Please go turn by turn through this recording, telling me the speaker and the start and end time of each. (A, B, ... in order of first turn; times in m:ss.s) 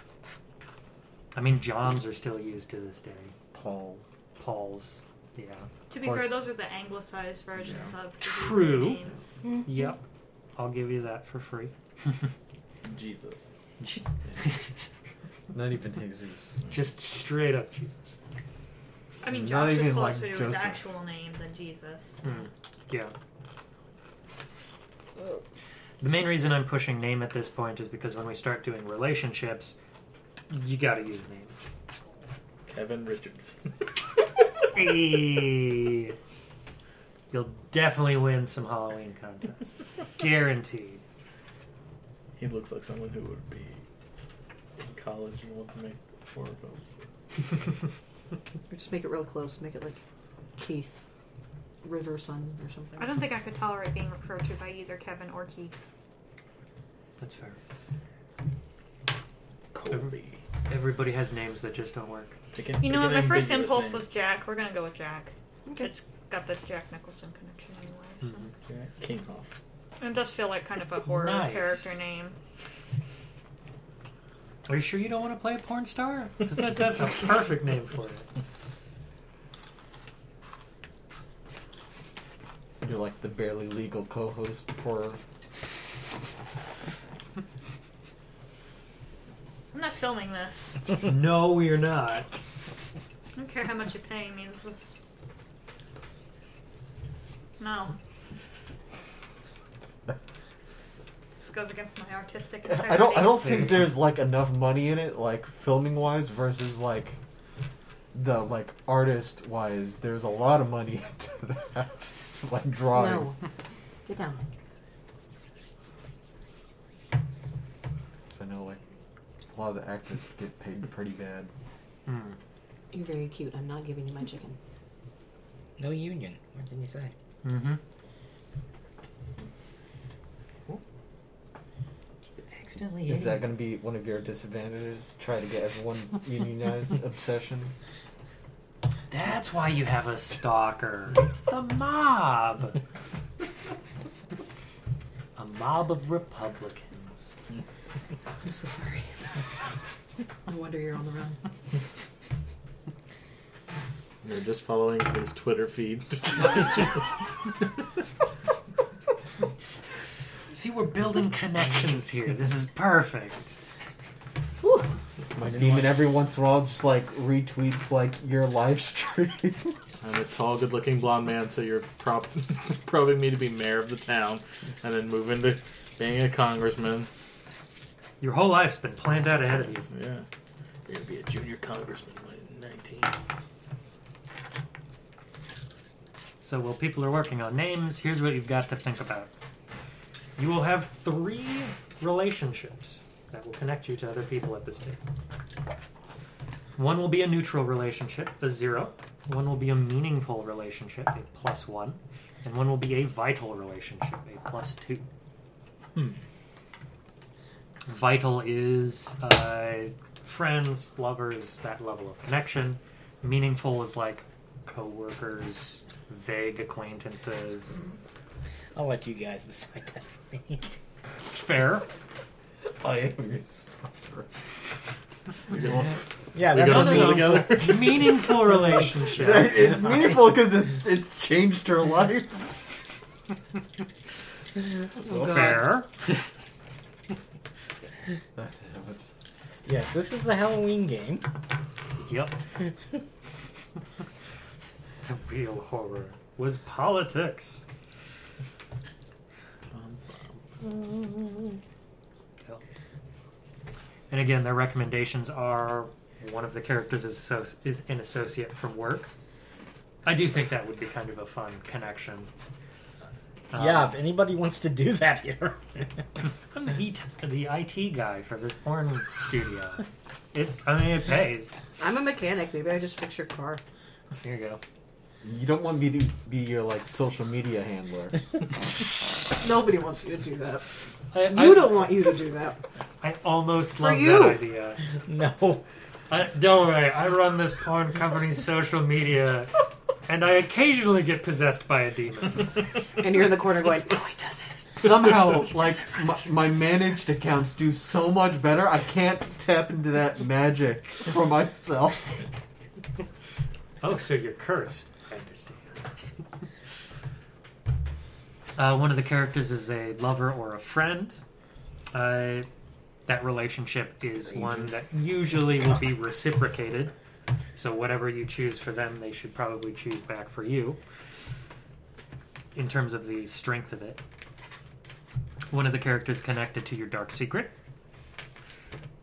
0:01.3-0:03.3 A
0:03.5-0:04.1 B
0:04.4-0:05.7 A
0:05.9-0:09.4 C
0:06.0-0:06.4 B
0:08.2-0:09.0 A
0:09.6-0:10.0 A
0:10.6-0:11.7 A
0:12.8-0:13.5 D
0:13.8-0:14.7 A
0:15.5-0:16.6 B
0:16.7-0:18.2 A
0:19.2-0:22.2 C
0:19.2-0:20.8 B
0:22.2-0:23.1 A
0:26.0-0:29.7 A
0:30.5-0:31.6 A
0:32.7-0:33.6 D
0:34.7-0:36.2 A
0:37.3-0:41.0 A
0:42.4-0:43.8 D
0:44.8-0:47.0 D
0:48.7-0:50.0 E
0:50.6-0:51.0 E
0:51.8-0:53.2 E
0:53.0-0:55.7 C
0:57.2-0:57.6 A
0:59.7-1:00.4 D
0:59.9-1:02.4 A
1:02.5-1:04.1 D
1:02.8-1:08.5 C
1:05.6-1:05.9 E
1:08.6-1:09.5 D
1:10.0-1:12.4 C
1:11.0-1:12.0 A
1:14.7-1:18.3 A
1:22.8-1:25.2 B
1:29.7-1:31.0 C
1:31.0-1:32.3 A
1:33.4-1:34.9 C
1:37.6-1:38.0 C
1:41.3-1:43.6 C
1:42.6-1:47.2 B
1:43.4-1:44.0 A
1:48.1-1:53.3 B
1:52.9-1:53.4 E
1:54.0-1:54.4 E
1:58.3-1:58.8 B
1:59.5-2:01.5 B
2:02.1-2:02.4 A
2:02.9-2:04.6 E
2:05.8-2:07.1 F
2:07.4-2:07.8 A
2:12.4-2:13.5 A
2:13.1-2:17.7 B
2:19.1-2:23.1 A
2:25.3-2:27.3 A
2:28.4-2:29.2 E
2:30.4-2:31.4 E
2:34.2-2:37.0 D
2:40.5-2:43.6 A
2:44.6-2:44.9 E
2:45.3-2:49.8 B
2:50.0-2:57.1 D
2:58.2-2:59.9 A
2:59.9-3:00.2 D
3:00.9-3:03.1 D
3:06.4-3:09.3 A
3:10.4-3:15.0 A
3:16.8-3:25.0 A
3:27.9-3:37.8 A
3:38.7-3:40.6 F
3:41.3-3:41.9 A
3:42.8-3:44.3 B
3:45.5-3:45.9 D
3:45.6-3:45.9 B
3:46.3-3:47.6 F
3:46.4-3:48.2 D
3:46.6-3:50.2 A
3:49.2-3:52.6 B
3:55.0-3:55.6 E
3:55.2-3:55.9 A
3:58.4-3:59.0 B
3:59.6-4:01.2 F
4:02.0-4:02.4 A
4:05.0-4:07.6 A
4:09.7-4:10.4 D
4:14.1-4:19.1 A
4:20.0-4:22.3 A
4:23.5-4:23.9 A
4:23.5-4:26.0 F
4:26.5-4:31.6 A
4:31.8-4:33.6 E
4:34.2-4:34.6 A
4:35.2-4:38.2 B
4:39.4-4:42.6 E
4:41.1-4:41.9 A
4:43.0-4:44.8 A
4:43.8-4:44.4 E
4:45.0-4:45.6 F
4:46.1-4:52.6 A
4:53.0-4:56.2 E
4:54.8-5:02.2 B
5:03.8-5:05.9 A
5:08.6-5:11.2 A
5:11.9-5:12.5 A
5:13.1-5:16.9 A
5:14.3-5:14.6 D
5:17.6-5:20.8 A
5:22.6-5:24.0 A
5:25.5-5:27.5 A